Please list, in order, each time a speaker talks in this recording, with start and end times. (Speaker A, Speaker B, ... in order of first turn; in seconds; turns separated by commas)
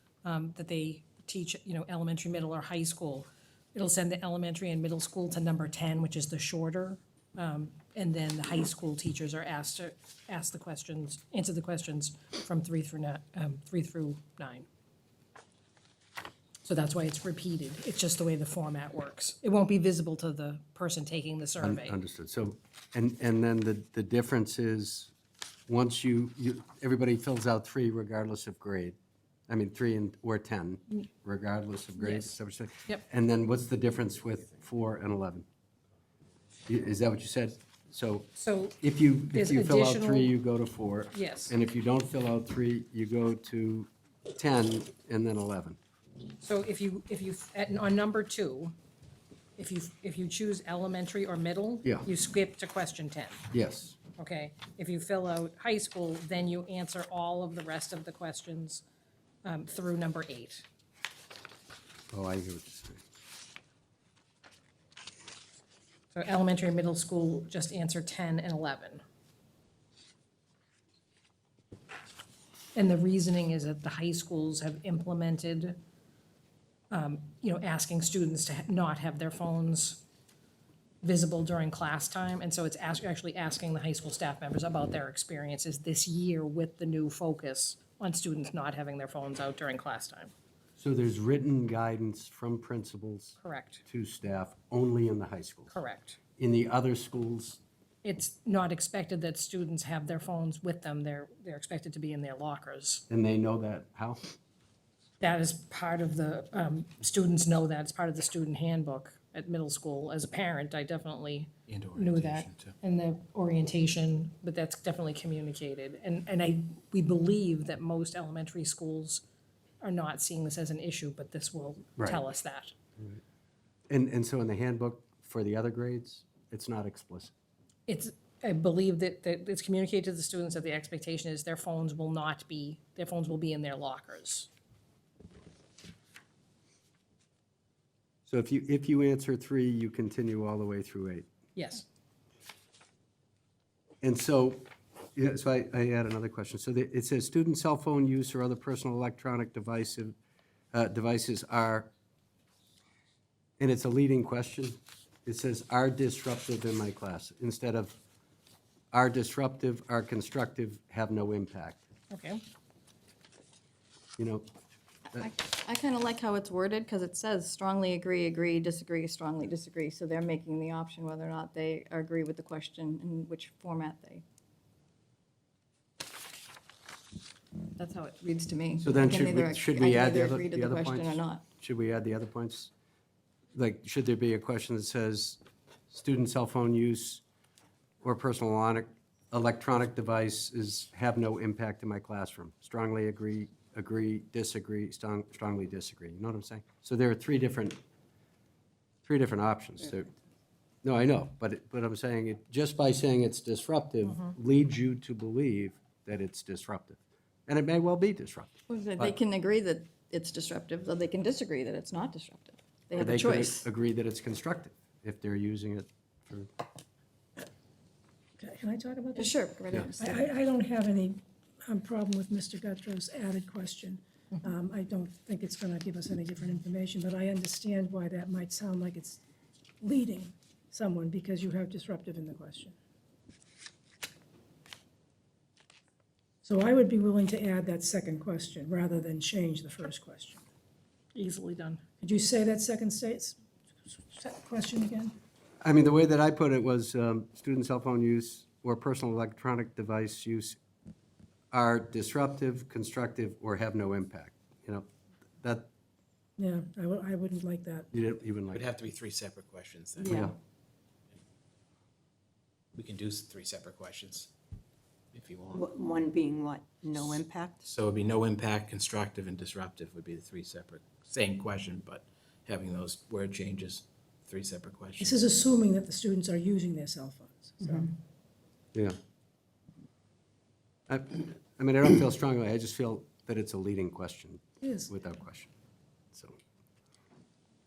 Speaker A: 0.2-14.7, Speaker A: 16.6-22.0, Speaker B: 21.6-25.1, Speaker B: 25.7-28.9, Speaker B: 29.5-35.5, Speaker A: 32.0-32.3, Speaker B: 36.7-38.3, Speaker A: 38.4-38.8, Speaker B: 38.8-45.8, Speaker A: 39.3-40.3, Speaker A: 41.1-41.5, Speaker A: 46.4-48.7, Speaker A: 49.6-53.4, Speaker B: 53.5-54.0, Speaker A: 54.2-58.8, Speaker A: 59.4-60.6, Speaker B: 62.1-63.0, Speaker A: 66.1-69.0, Speaker A: 72.7-75.8, Speaker A: 76.9-80.0, Speaker A: 81.0-90.3, Speaker B: 90.8-95.7, Speaker A: 93.4-93.8, Speaker A: 95.7-96.2, Speaker B: 96.4-97.6, Speaker A: 98.0-103.0, Speaker B: 103.1-104.3, Speaker A: 105.2-119.2, Speaker C: 111.7-112.8, Speaker A: 119.8-122.7, Speaker B: 122.0-122.2, Speaker B: 123.9-127.3, Speaker A: 127.9-134.5, Speaker B: 138.3-141.2, Speaker A: 141.5-141.8, Speaker B: 144.0-150.2, Speaker B: 150.7-151.9, Speaker B: 153.6-158.0, Speaker B: 158.9-161.8, Speaker A: 162.1-162.4, Speaker B: 164.2-164.5, Speaker D: 165.1-174.2, Speaker D: 177.8-181.4, Speaker B: 178.8-182.7, Speaker B: 183.5-187.2, Speaker B: 188.0-197.8, Speaker B: 199.0-200.1, Speaker B: 200.8-209.2, Speaker D: 208.7-213.6, Speaker B: 212.9-216.5, Speaker E: 218.4-219.3, Speaker D: 219.2-220.2, Speaker E: 220.0-229.2, Speaker E: 229.8-232.8, Speaker E: 236.4-240.4, Speaker A: 241.1-241.8, Speaker E: 242.0-243.4, Speaker E: 243.9-245.2, Speaker B: 245.6-250.6, Speaker B: 251.5-254.9, Speaker B: 255.4-255.7, Speaker E: 256.4-257.9, Speaker B: 257.9-258.6, Speaker C: 258.5-260.2, Speaker B: 260.0-260.3, Speaker C: 262.7-264.3, Speaker C: 265.1-265.6, Speaker F: 265.5-267.6, Speaker C: 267.6-275.3, Speaker E: 275.0-277.9, Speaker B: 280.9-285.5, Speaker E: 284.6-284.9